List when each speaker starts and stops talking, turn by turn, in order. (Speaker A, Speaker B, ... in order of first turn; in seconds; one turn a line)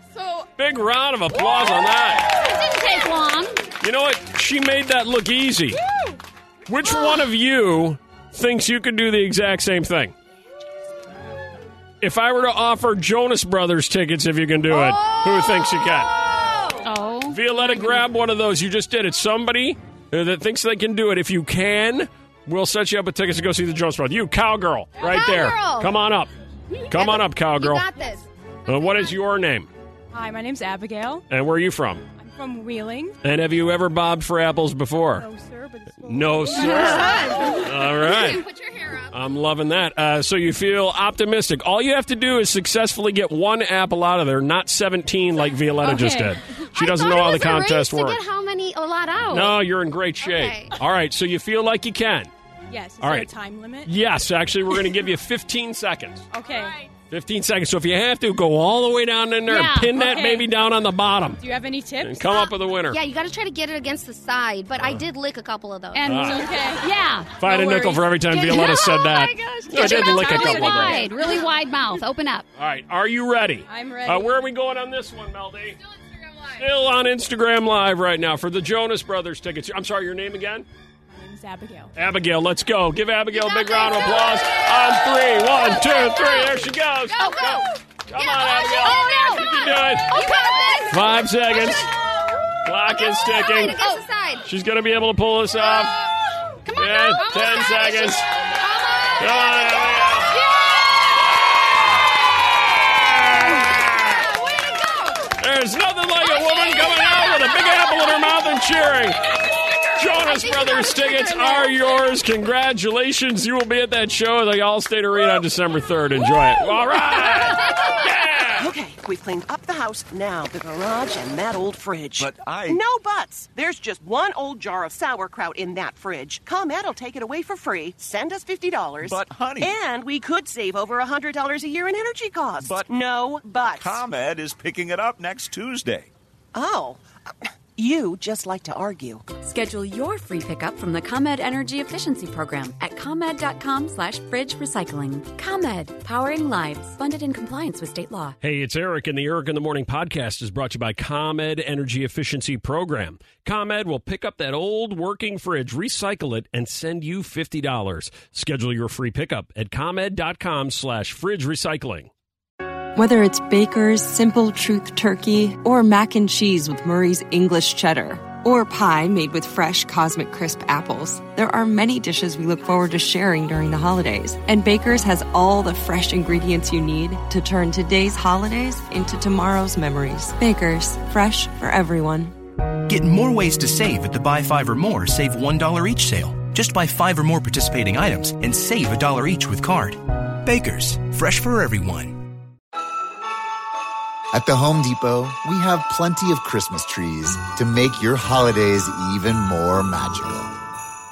Speaker A: 0.1-0.5
Speaker B: 0.6-2.3
Speaker C: 2.3-3.6
Speaker B: 3.8-5.8
Speaker B: 6.7-10.1
Speaker B: 12.0-16.1
Speaker D: 15.0-15.8
Speaker D: 16.5-16.7
Speaker C: 16.8-18.0
Speaker B: 17.3-26.3
Speaker D: 25.0-26.0
Speaker D: 26.7-28.2
Speaker B: 26.9-27.9
Speaker A: 27.9-28.2
Speaker B: 28.7-29.7
Speaker A: 30.1-31.2
Speaker B: 31.3-32.0
Speaker A: 32.1-33.2
Speaker B: 33.2-35.3
Speaker A: 35.2-37.7
Speaker B: 36.0-38.5
Speaker C: 36.6-37.6
Speaker D: 37.1-37.6
Speaker D: 38.2-39.1
Speaker B: 39.1-48.2
Speaker C: 45.8-46.4
Speaker D: 46.8-49.6
Speaker B: 49.3-52.3
Speaker D: 50.2-50.8
Speaker A: 52.7-53.9
Speaker B: 53.0-53.3
Speaker B: 53.9-56.3
Speaker A: 56.3-56.9
Speaker B: 57.1-61.4
Speaker C: 59.5-60.5
Speaker A: 60.0-60.4
Speaker A: 61.4-62.4
Speaker B: 62.0-63.0
Speaker D: 62.9-66.2
Speaker C: 66.0-72.5
Speaker B: 66.0-66.5
Speaker A: 66.3-66.9
Speaker B: 67.4-71.1
Speaker D: 69.3-69.9
Speaker A: 69.8-71.4
Speaker B: 72.6-75.8
Speaker A: 73.7-74.5
Speaker B: 76.5-80.7
Speaker A: 81.1-81.9
Speaker B: 82.0-90.4
Speaker D: 83.4-84.6
Speaker D: 85.5-86.5
Speaker D: 87.2-91.8
Speaker C: 89.0-89.3
Speaker C: 90.1-91.0
Speaker B: 90.9-91.9
Speaker B: 92.7-96.0
Speaker D: 92.8-94.5
Speaker D: 95.6-96.1
Speaker B: 96.7-98.3
Speaker D: 96.8-100.7
Speaker B: 99.2-100.4
Speaker B: 103.0-104.2
Speaker D: 103.1-105.3
Speaker B: 105.4-109.3
Speaker D: 106.5-107.7
Speaker B: 109.9-118.7
Speaker D: 110.2-112.0
Speaker E: 118.6-134.0
Speaker F: 122.2-122.8
Speaker F: 129.0-129.8
Speaker F: 133.8-136.1
Speaker E: 136.5-137.0
Speaker E: 137.8-139.3
Speaker G: 139.4-148.4
Speaker B: 148.4-162.1
Speaker H: 163.0-182.3
Speaker I: 182.9-192.2
Speaker J: 194.3-200.5